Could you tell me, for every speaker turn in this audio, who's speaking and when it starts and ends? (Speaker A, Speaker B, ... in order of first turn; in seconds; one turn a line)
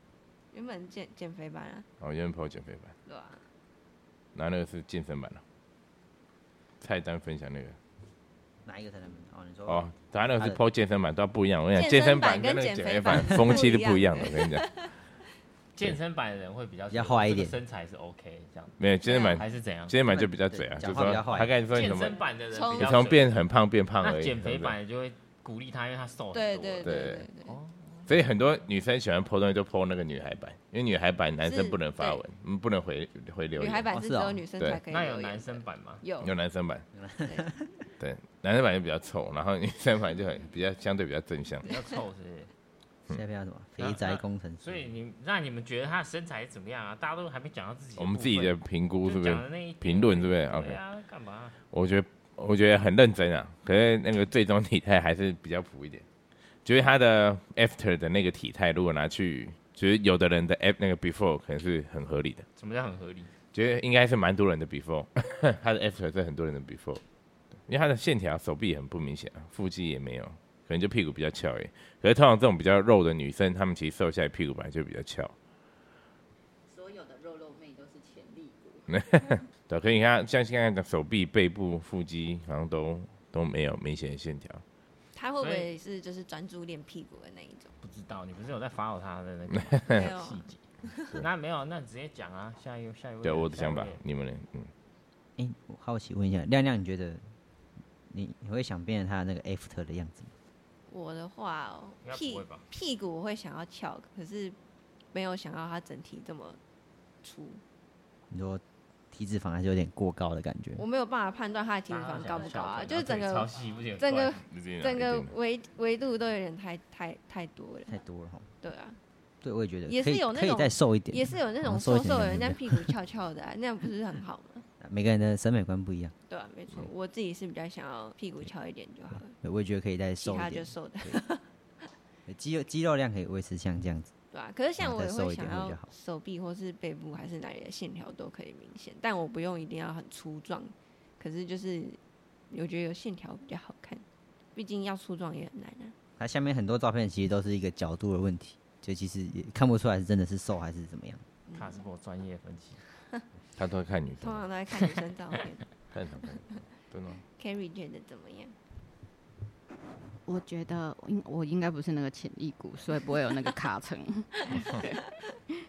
Speaker A: 0.5-1.9
Speaker B: 2.0-2.9
Speaker A: 3.0-3.4
Speaker B: 4.3-5.4
Speaker B: 6.8-7.8
Speaker C: 8.6-10.6
Speaker B: 9.7-14.7
Speaker A: 11.7-14.9
Speaker D: 15.7-18.8
Speaker C: 16.9-17.6
Speaker B: 18.8-22.2
Speaker A: 19.0-19.4
Speaker D: 19.3-19.9
Speaker C: 20.1-21.5
Speaker D: 21.7-23.3
Speaker A: 22.5-23.0
Speaker B: 22.7-24.8
Speaker D: 24.0-28.1
Speaker A: 26.3-27.6
Speaker B: 26.8-27.2
Speaker B: 28.1-33.9
Speaker A: 31.4-32.2
Speaker A: 33.6-36.3
Speaker C: 33.9-34.4
Speaker D: 34.9-36.0
Speaker B: 36.2-36.9
Speaker C: 36.9-37.7
Speaker B: 38.0-41.7
Speaker D: 41.6-42.5
Speaker C: 43.1-44.9
Speaker D: 43.8-51.5
Speaker B: 48.0-50.8
Speaker B: 51.7-56.0
Speaker B: 56.6-62.5
Speaker D: 62.5-63.3
Speaker B: 63.5-67.0
Speaker B: 67.7-75.3
Speaker E: 76.9-78.5
Speaker B: 78.9-84.6
Speaker A: 85.1-87.7
Speaker D: 85.4-85.7
Speaker D: 87.8-90.6
Speaker A: 89.9-91.2
Speaker D: 91.2-94.0
Speaker B: 93.2-94.7
Speaker C: 95.4-97.3
Speaker C: 98.1-100.3
Speaker A: 100.9-104.6
Speaker D: 102.0-102.6
Speaker A: 105.1-106.6
Speaker A: 107.2-107.6
Speaker C: 108.3-110.8
Speaker A: 110.8-118.0
Speaker D: 111.9-114.4
Speaker B: 114.5-115.3
Speaker C: 117.9-118.5
Speaker A: 118.6-119.0
Speaker C: 119.4-122.9
Speaker A: 119.8-124.7
Speaker C: 124.8-126.1
Speaker A: 126.3-129.3
Speaker C: 129.4-131.2
Speaker A: 130.2-131.4
Speaker C: 132.3-134.1
Speaker A: 134.3-142.0
Speaker C: 134.8-135.9
Speaker A: 142.5-144.0
Speaker A: 144.5-145.9
Speaker C: 146.2-151.2
Speaker A: 151.5-151.7
Speaker D: 151.5-152.8
Speaker B: 153.6-154.4
Speaker A: 154.2-155.7
Speaker B: 155.9-157.2
Speaker A: 157.3-158.5
Speaker E: 160.2-165.0